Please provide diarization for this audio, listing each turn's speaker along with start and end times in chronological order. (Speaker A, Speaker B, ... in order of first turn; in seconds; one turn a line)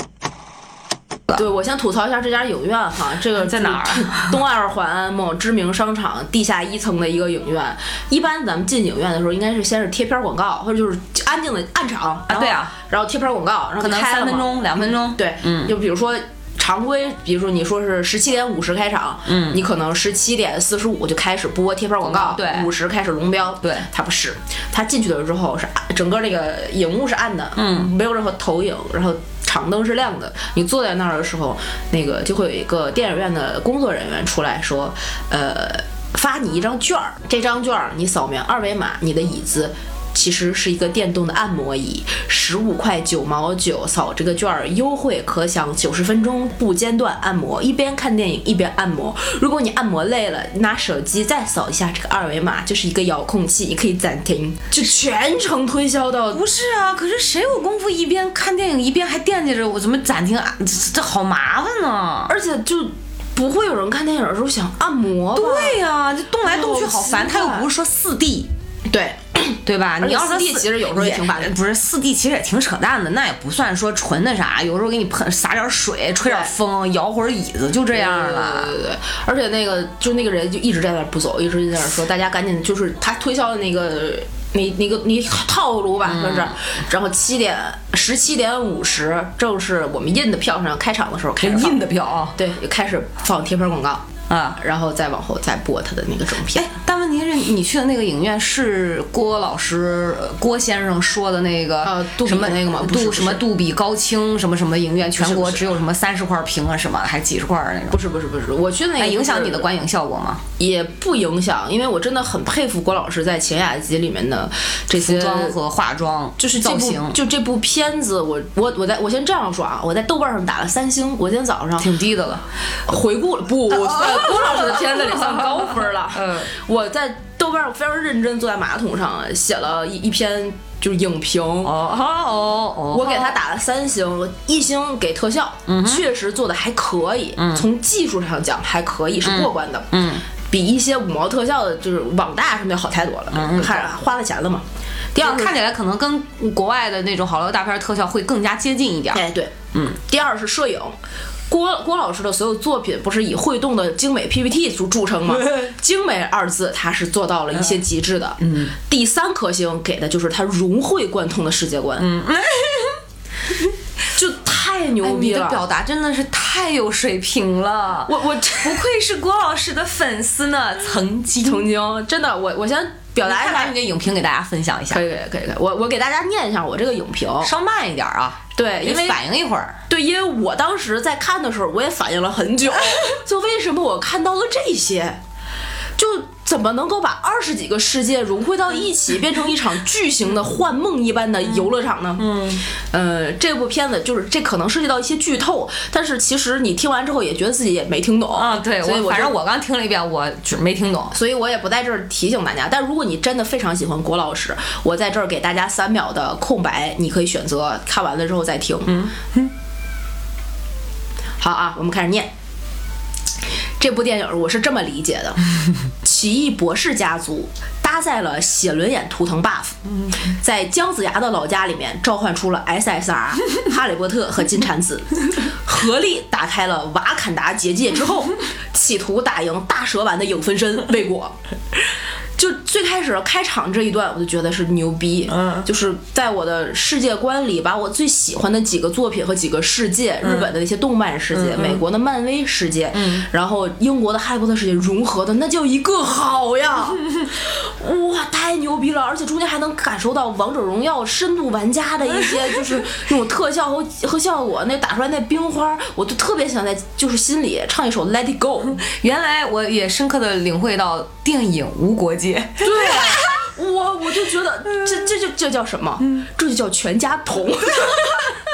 Speaker A: 1.3-56.4
Speaker B: 3.4-4.4
Speaker B: 12.3-12.7
Speaker B: 13.8-15.7
Speaker B: 19.2-19.6
Speaker B: 22.0-22.7
Speaker B: 23.6-23.9
Speaker B: 27.6-27.9
Speaker B: 56.3-62.3
Speaker A: 62.3-65.8
Speaker B: 65.3-68.5
Speaker A: 66.4-67.7
Speaker A: 68.9-71.5
Speaker B: 69.6-78.7
Speaker A: 76.2-76.5
Speaker A: 77.9-91.8
Speaker B: 86.0-86.5
Speaker B: 91.4-92.3
Speaker A: 92.3-94.0
Speaker B: 94.3-94.6
Speaker A: 94.6-96.7
Speaker B: 96.5-108.0
Speaker A: 101.8-103.4
Speaker A: 105.2-105.7
Speaker A: 107.9-109.7
Speaker B: 109.0-110.4
Speaker A: 110.6-115.5
Speaker B: 114.9-117.2
Speaker A: 116.4-121.9
Speaker B: 121.8-122.5
Speaker A: 122.8-131.7
Speaker B: 123.7-126.5
Speaker B: 131.6-133.4
Speaker A: 132.9-139.9
Speaker B: 135.7-136.0
Speaker B: 137.4-137.7
Speaker B: 139.2-140.2
Speaker A: 140.5-145.5
Speaker B: 143.3-143.9
Speaker B: 145.2-150.0
Speaker A: 149.1-150.9
Speaker A: 151.5-162.1
Speaker B: 155.3-155.7
Speaker B: 158.4-158.7
Speaker B: 162.0-163.0
Speaker A: 164.1-165.6
Speaker B: 165.0-171.7
Speaker A: 168.1-168.8
Speaker A: 171.4-173.7
Speaker B: 173.2-175.0
Speaker A: 174.9-177.5
Speaker B: 177.4-179.8
Speaker A: 178.6-179.2
Speaker A: 179.9-185.2
Speaker A: 186.0-192.3
Speaker B: 192.2-192.6
Speaker A: 192.9-199.3
Speaker B: 198.3-201.1
Speaker A: 201.1-209.0
Speaker B: 208.9-209.5
Speaker A: 211.4-212.3
Speaker A: 213.8-215.4
Speaker A: 216.0-219.8
Speaker A: 220.3-231.3
Speaker A: 232.4-258.8
Speaker B: 235.3-235.7
Speaker B: 240.2-240.5
Speaker B: 241.3-241.8
Speaker B: 242.9-243.3
Speaker B: 258.8-263.2
Speaker A: 262.6-268.3